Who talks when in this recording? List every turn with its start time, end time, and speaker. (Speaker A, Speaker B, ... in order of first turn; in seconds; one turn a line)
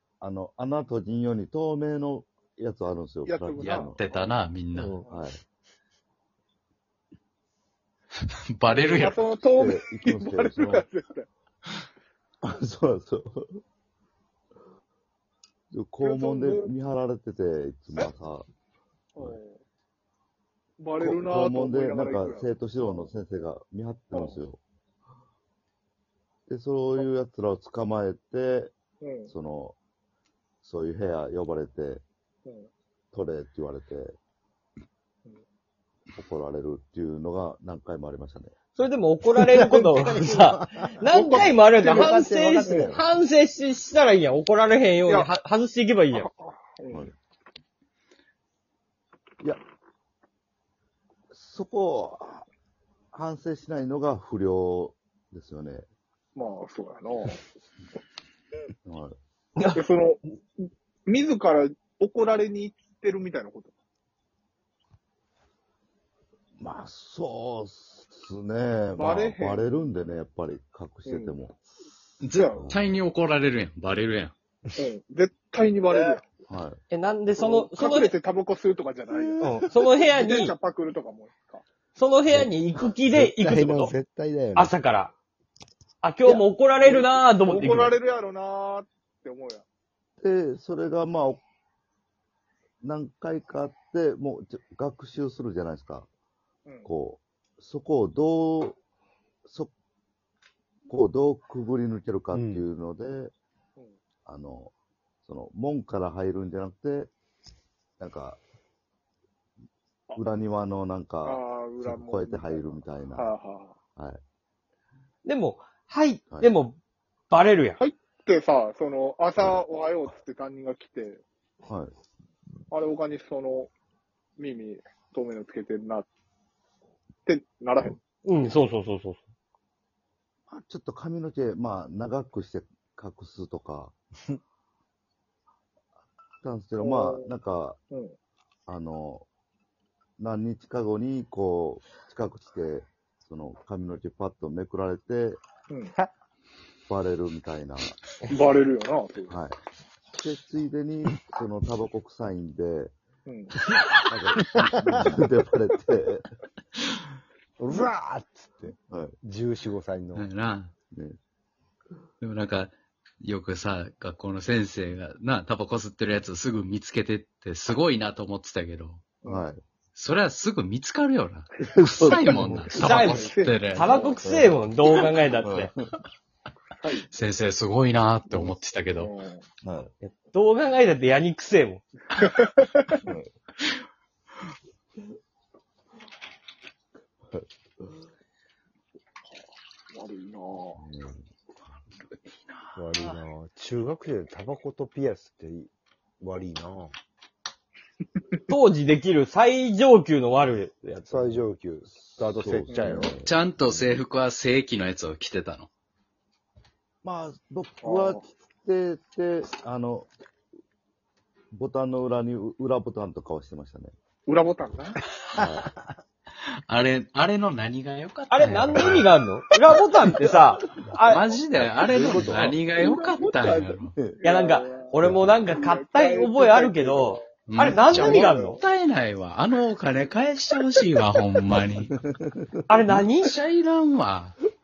Speaker A: 0.2-4.0
Speaker B: 3.3-4.3
Speaker C: 3.6-5.0
Speaker A: 4.8-5.4
Speaker B: 5.0-5.3
Speaker C: 8.6-9.2
Speaker B: 8.7-11.3
Speaker A: 9.6-10.9
Speaker A: 12.4-13.6
Speaker A: 15.7-18.5
Speaker B: 16.0-16.7
Speaker B: 19.1-19.6
Speaker B: 20.8-23.1
Speaker A: 21.0-24.6
Speaker B: 24.1-24.4
Speaker A: 26.5-28.7
Speaker B: 29.0-29.3
Speaker A: 29.3-29.8
Speaker A: 30.6-32.0
Speaker B: 32.5-32.7
Speaker A: 33.1-34.2
Speaker A: 36.2-38.5
Speaker D: 38.8-46.3
Speaker E: 39.5-41.1
Speaker B: 41.1-42.9
Speaker E: 41.9-42.9
Speaker B: 46.1-47.1
Speaker A: 51.3-52.5
Speaker A: 53.1-55.9
Speaker B: 56.4-57.4
Speaker A: 58.9-59.2
Speaker D: 59.6-59.8
Speaker B: 59.7-63.8
Speaker A: 66.6-71.6
Speaker B: 69.0-69.8
Speaker B: 71.1-71.4
Speaker C: 72.2-74.3
Speaker B: 72.3-72.7
Speaker A: 72.6-72.9
Speaker B: 74.8-76.3
Speaker A: 76.5-76.8
Speaker D: 76.9-78.1
Speaker B: 77.4-81.6
Speaker D: 79.4-80.5
Speaker D: 82.0-84.0
Speaker E: 82.3-84.8
Speaker D: 84.5-85.1
Speaker D: 86.0-88.0
Speaker B: 86.8-89.7
Speaker A: 90.2-91.4
Speaker A: 92.8-96.1
Speaker A: 96.8-98.8
Speaker A: 99.5-99.7
Speaker A: 100.9-103.3
Speaker E: 102.3-102.6
Speaker A: 104.3-104.7
Speaker A: 105.2-107.1
Speaker A: 108.0-108.4
Speaker A: 110.2-113.3
Speaker B: 111.2-113.8
Speaker D: 115.2-116.8
Speaker D: 117.3-117.8
Speaker B: 117.8-121.2
Speaker A: 121.7-121.9
Speaker B: 122.7-123.7
Speaker B: 124.4-126.1
Speaker B: 127.3-128.0
Speaker D: 128.2-129.2
Speaker A: 130.5-133.9
Speaker A: 136.4-137.8
Speaker B: 136.8-137.3
Speaker B: 137.9-138.2
Speaker A: 138.7-139.3
Speaker A: 140.2-145.4
Speaker A: 146.9-148.2
Speaker B: 148.3-149.4
Speaker A: 149.3-149.6
Speaker A: 150.2-152.9
Speaker B: 153.3-153.5
Speaker A: 154.1-156.3
Speaker E: 157.6-160.3
Speaker A: 158.7-159.2
Speaker C: 160.2-160.7
Speaker A: 160.9-161.2
Speaker C: 162.2-169.0
Speaker A: 169.2-169.6
Speaker C: 170.0-173.9
Speaker A: 171.6-173.0
Speaker D: 172.7-175.7
Speaker B: 172.9-174.2
Speaker A: 174.2-174.6
Speaker A: 175.4-175.8
Speaker B: 176.8-177.1
Speaker C: 177.1-179.1
Speaker B: 179.0-179.4
Speaker A: 179.6-179.9
Speaker D: 180.0-181.8
Speaker B: 182.2-183.0
Speaker A: 183.0-183.3
Speaker B: 189.9-190.8
Speaker A: 190.8-191.3
Speaker C: 192.4-193.2
Speaker E: 192.7-196.9
Speaker D: 198.5-201.4
Speaker E: 201.1-203.2
Speaker A: 201.9-204.0
Speaker B: 202.7-203.2
Speaker C: 203.2-205.7
Speaker A: 207.0-210.1
Speaker B: 207.8-208.3
Speaker A: 211.5-213.9
Speaker B: 214.3-215.0
Speaker A: 215.3-215.7
Speaker C: 216.7-219.1
Speaker D: 218.3-221.3
Speaker A: 220.3-220.9
Speaker C: 221.1-224.0
Speaker A: 221.5-222.6
Speaker B: 221.9-227.2
Speaker E: 222.1-222.5
Speaker A: 224.0-224.2
Speaker D: 224.2-228.6
Speaker A: 225.0-225.4
Speaker C: 227.5-231.9
Speaker B: 227.9-228.5
Speaker A: 231.9-233.1
Speaker D: 232.7-233.3
Speaker C: 233.2-234.4